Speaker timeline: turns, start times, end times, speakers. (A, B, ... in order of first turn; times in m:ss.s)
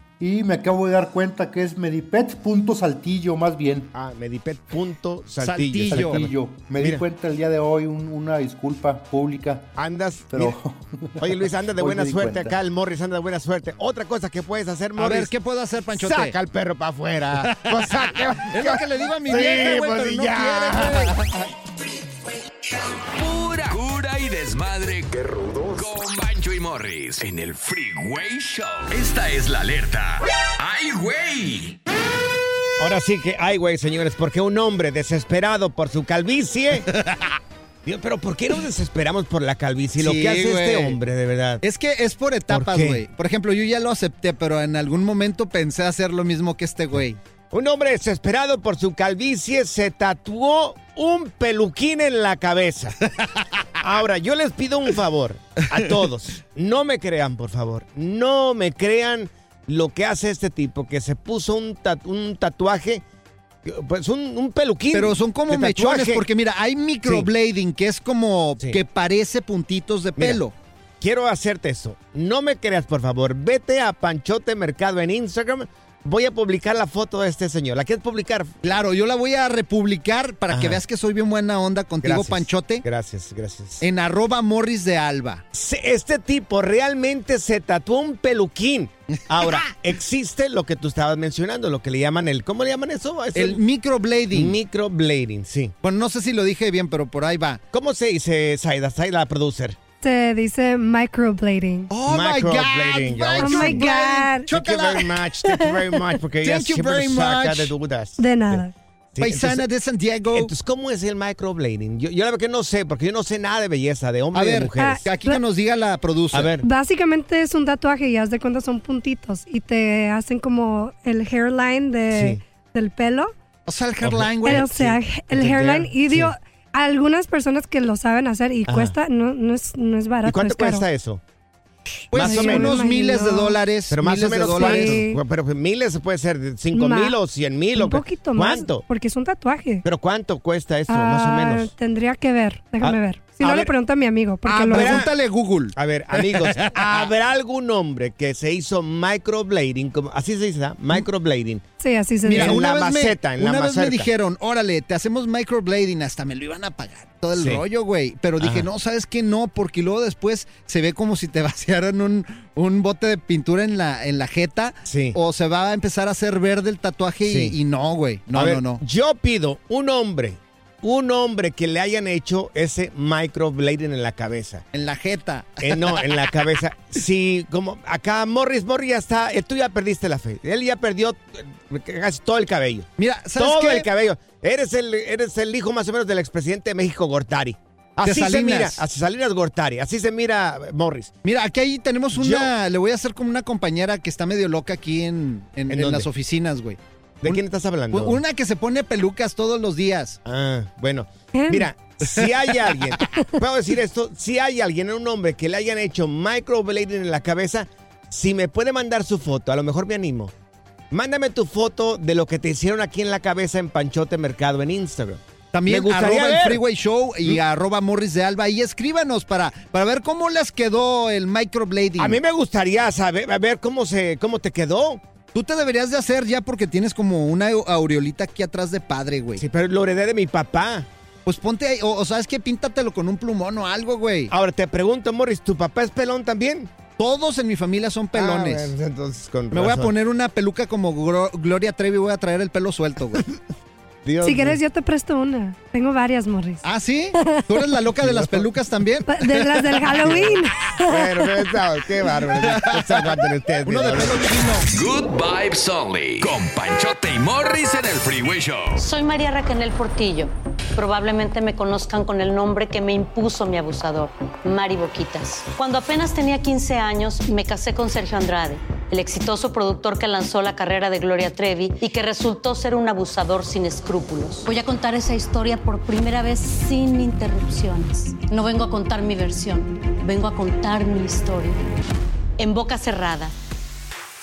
0:00.2-0:03.9 A
0:03.9-0:07.0 B
0:05.4-0:06.2 C
0:05.9-0:09.7 A
0:09.7-0:10.6 B
0:10.3-0:12.6 A
0:11.2-0:15.3 B
0:15.0-0:16.4 C
0:15.9-0:21.1 B
0:17.4-0:21.5 C
0:23.1-0:31.8 D
0:32.8-0:36.9 B
0:36.9-0:37.2 C
0:37.8-0:41.6 B
0:40.0-0:41.0 C
0:41.6-0:47.2 C
0:42.5-0:43.0 B
0:47.5-0:53.0 B
0:53.8-1:03.0 B
1:03.6-1:06.2 B
1:04.9-1:10.5 C
1:11.0-1:18.6 B
1:18.6-1:22.8 C
1:20.5-1:20.8 B
1:22.0-1:23.8 B
1:23.8-1:25.4 C
1:25.5-1:33.6 B
1:29.3-1:29.6 C
1:33.3-1:34.6 C
1:34.3-1:35.7 B
1:35.8-1:37.6 C
1:37.7-1:39.8 B
1:40.0-1:41.9 E
1:41.9-1:45.2 C
1:42.0-1:43.9 B
1:43.4-1:44.5 E
1:44.5-1:48.6 B
1:46.4-1:47.7 C
1:48.2-1:48.7 E
1:49.1-1:49.6 B
1:49.2-1:50.5 C
1:50.3-1:55.0 B
1:54.3-1:56.5 C
1:54.8-1:55.4 E
1:56.3-1:56.6 B
1:56.6-2:03.3 E
2:02.1-2:02.4 B
2:03.7-2:04.7 C
2:04.0-2:06.3 B
2:04.4-2:10.8 E
2:08.7-2:08.9 B
2:10.2-2:11.2 B
2:12.1-2:15.0 C
2:12.1-2:13.6 E
2:12.1-2:12.8 B
2:13.9-2:18.9 B
2:14.4-2:15.2 E
2:16.7-2:17.2 E
2:17.7-2:19.8 E
2:19.8-2:21.7 B
2:20.9-2:25.1 E
2:22.8-2:23.7 B
2:24.4-2:25.1 B
2:24.6-2:26.7 C
2:25.7-2:31.6 B
2:31.8-2:32.6 E
2:32.2-2:34.1 B
2:32.2-2:48.8 C
2:37.4-2:37.6 B
2:38.4-2:38.7 B
2:44.9-2:45.2 B
2:47.2-2:47.5 B
2:48.3-2:54.6 B
2:54.7-2:56.3 C
2:55.6-3:11.1 B
3:03.0-3:03.9 C
3:08.0-3:08.8 C
3:11.2-3:20.2 C
3:12.1-3:12.5 B
3:15.7-3:16.1 B
3:17.2-3:18.2 B
3:20.2-3:30.3 B
3:21.3-3:21.7 E
3:22.0-3:22.9 C
3:30.9-3:36.6 B
3:35.5-3:42.2 C
3:42.0-3:45.0 B
3:45.3-3:49.4 C
3:49.4-3:50.9 B
3:51.2-3:54.3 C
3:54.3-3:56.7 B
3:57.0-3:58.7 C
3:58.1-3:59.9 B
3:59.5-4:03.2 C
4:04.0-4:04.6 B
4:04.2-4:06.6 E
4:06.6-4:10.1 C
4:08.0-4:08.4 B
4:09.1-4:11.2 E
4:10.0-4:10.3 B
4:10.8-4:14.2 B
4:12.4-4:13.1 C
4:13.6-4:14.6 C
4:14.7-4:18.8 D
4:18.8-4:41.6 F
4:42.4-4:43.3 F